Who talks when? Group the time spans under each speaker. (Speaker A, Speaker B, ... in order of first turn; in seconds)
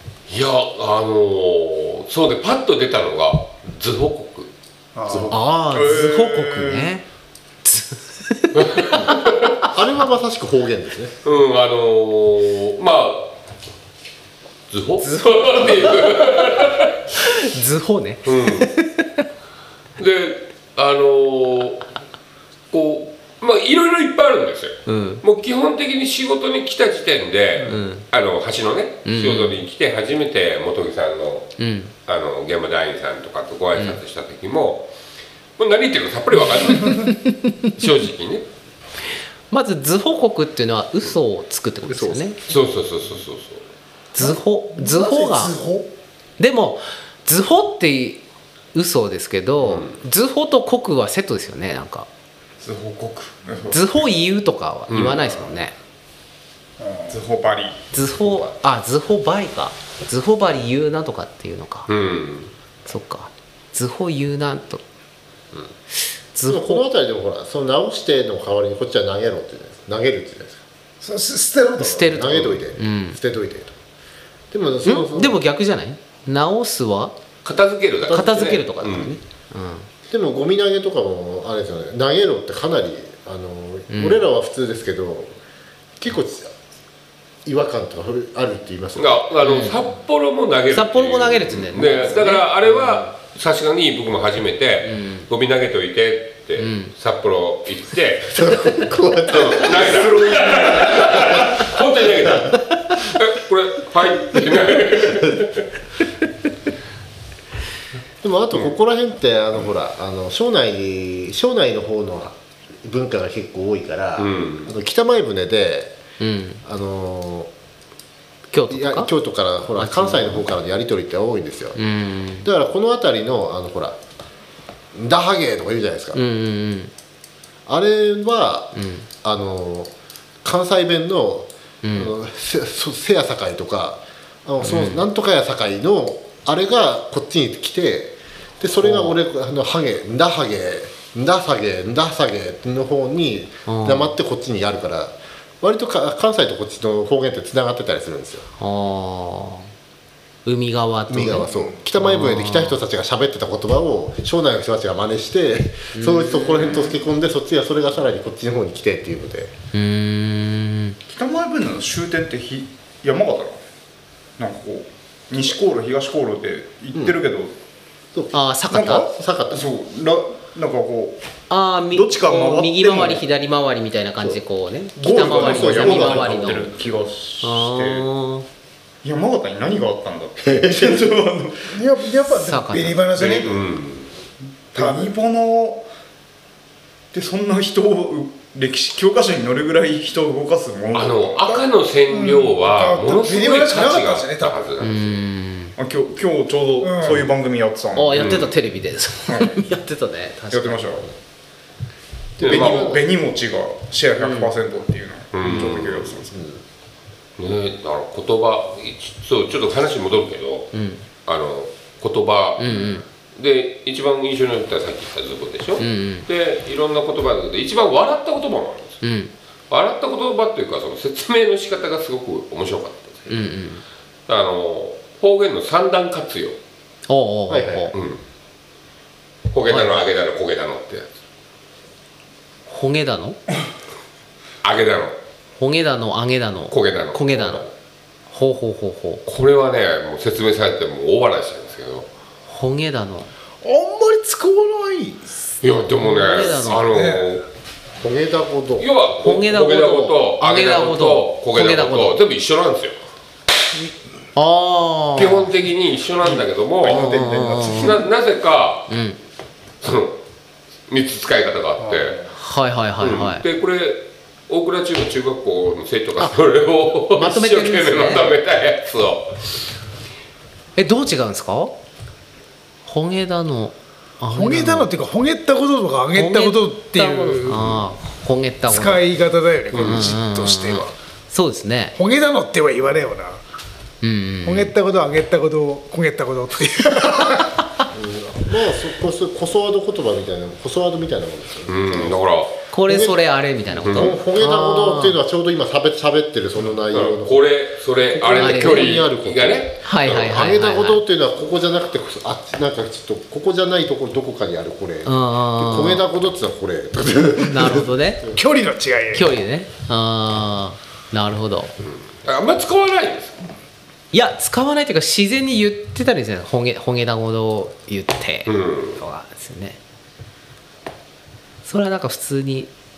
Speaker A: 0.3-4.5, 8.6-9.5, 11.2-13.3, 14.7-17.0, 18.2-18.7, 20.0-21.9, 22.7-34.9, 35.6-37.2, 37.7-38.5, 42.5-43.6, 49.6-50.0, 54.9-55.3, 61.9-62.5, 77.5-79.2, 89.0-98.4, 99.3-105.7, 114.2-114.7, 183.2-184.1, 190.9-195.2, 198.2-198.5, 202.4-202.9, 205.3-206.2, 207.4-210.7, 211.2-219.0, 219.7-223.5, 224.3-226.6, 227.9-228.2, 229.5-231.1, 234.6-235.2, 236.7-237.7, 239.3-242.1, 245.6-247.5, 248.8-253.0, 255.2-258.9, 259.8-260.2, 260.9-262.3, 263.0-269.6, 291.7-292.6, 293.9-294.1, 296.9-300.4, 311.8-313.5, 318.5-319.0
Speaker B: 5.0-5.3, 44.2-45.9, 71.0-72.0, 181.7-183.6, 184.8-185.1, 192.1-194.8, 196.8-197.3, 243.6-245.4, 246.8-247.4, 261.9-262.1, 274.3-277.7, 278.7-280.9, 282.0-283.4, 284.4-287.6, 308.3-309.3
Speaker C: 5.3-7.0, 7.7-8.9, 15.0-16.3, 17.2-19.2, 24.9-25.2, 27.6-28.1, 29.1-29.6, 31.6-31.9, 37.1-37.6, 39.5-42.4, 44.1-45.6, 46.4-48.2, 48.7-52.1, 53.7-55.8, 57.9-61.9, 62.9-64.8, 66.3-66.8, 71.8-73.2, 74.8-77.2, 78.1-79.9, 83.9-84.2, 89.4-89.8, 90.7-92.5, 94.8-95.3, 96.6-96.9, 116.2-116.6, 118.5-119.1, 119.8-120.4, 121.8-122.5, 126.1-126.9, 128.8-129.1, 131.8-132.2, 134.6-135.0, 138.8-139.2, 143.7-144.1, 148.6-149.7, 150.4-152.8, 155.9-156.9, 159.7-161.0, 168.3-169.1, 171.5-176.7, 177.4-178.5, 182.3-183.1, 194.8-195.8, 197.9-201.1, 204.2-204.5, 210.7-211.0, 212.6-213.1, 215.8-216.3, 219.0-219.3, 223.3-223.8, 227.1-227.9, 229.7-230.0, 232.7-233.4, 235.6-237.7, 238.3-239.2, 242.5-243.3, 246.0-246.9, 249.2-252.1, 254.3-255.5, 256.9-258.0, 258.9-259.2, 262.3-263.4, 267.1-268.3, 270.8-271.8, 272.9-274.9, 276.1-279.0, 279.7-282.0, 284.0-284.8, 292.7-295.2, 298.3-299.0, 299.8-301.0, 305.1-306.0, 307.5-308.3, 309.1-311.8, 314.1-319.8, 321.6-322.7
Speaker D: 5.7-6.9, 52.6-53.9, 57.1-57.8, 100.3-100.9, 161.1-163.6, 164.4-167.6, 168.7-171.2, 171.9-173.2, 175.0-178.1, 179.0-181.8, 184.7-185.9, 187.1-191.7, 195.8-198.5, 199.3-199.6, 200.5-201.1, 202.5-206.4, 256.8-257.9
Speaker E: 9.6-11.2, 41.9-42.2, 66.5-70.6, 71.9-73.8, 74.5-75.4, 80.1-85.3, 86.0-86.5, 87.5-89.2, 98.3-101.6, 108.2-116.0, 116.6-117.5, 118.7-121.8, 122.4-124.0, 124.9-126.2, 127.7-129.9, 130.4-148.5, 151.1-159.5, 168.2-169.6, 175.0-176.7, 202.4-203.1, 206.3-206.6, 227.5-227.9, 248.0-248.9, 287.9-292.2, 292.9-293.2, 293.8-297.4, 298.1-308.0